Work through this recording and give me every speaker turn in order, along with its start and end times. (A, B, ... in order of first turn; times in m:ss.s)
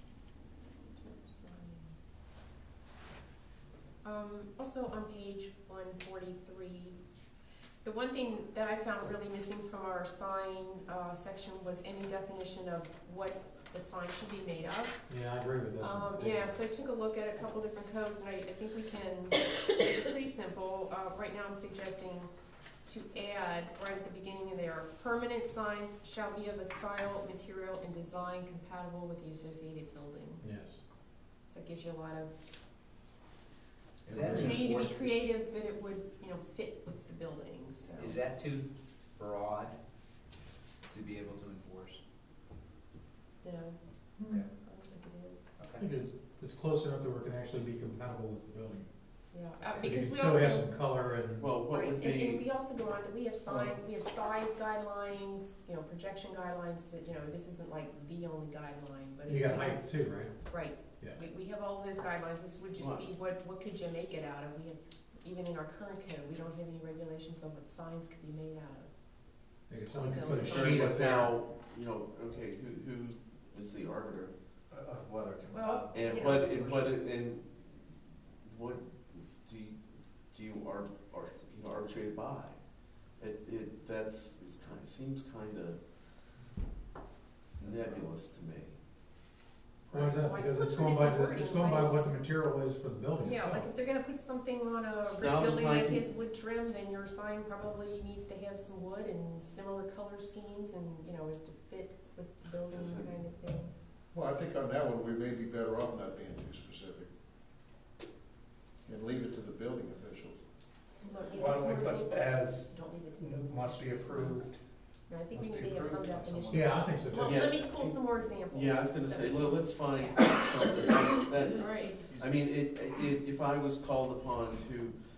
0:00.9-0:01.9 A
0:04.0-0:07.0 A
0:07.8-0:15.0 A
0:15.1-0:16.5 B
0:15.8-0:22.3 A
0:22.9-0:30.4 A
0:30.4-0:30.8 B
0:31.5-0:32.3 A
0:34.0-0:35.2 C
0:34.1-0:34.6 B
0:34.2-0:38.2 A
0:38.0-0:39.8 C
0:40.9-0:42.0 C
0:43.4-0:43.8 A
0:44.4-0:45.4 A
0:45.6-0:45.9 C
0:45.8-0:48.8 B
0:49.3-0:50.7 A
0:49.8-0:51.5 B
0:51.4-0:52.4 D
0:51.7-0:59.9 A
0:53.4-0:53.8 E
0:59.3-1:00.3 B
1:00.4-1:08.9 A
1:02.8-1:03.0 D
1:09.7-1:11.3 B
1:09.9-1:10.9 A
1:10.1-1:14.3 D
1:14.7-1:16.9 F
1:15.5-1:16.7 A
1:15.9-1:19.8 D
1:20.3-1:22.6 D
1:23.2-1:25.8 D
1:27.6-1:28.7 D
1:29.9-1:32.1 A
1:29.9-1:33.7 B
1:33.2-1:43.7 A
1:35.1-1:36.0 D
1:42.7-1:43.1 D
1:44.1-1:47.1 E
1:48.8-1:50.4 E
1:51.0-1:54.5 A
1:51.3-1:54.6 F
1:55.1-2:02.0 A
1:55.3-1:56.9 F
1:56.5-1:57.5 B
1:57.2-2:05.0 D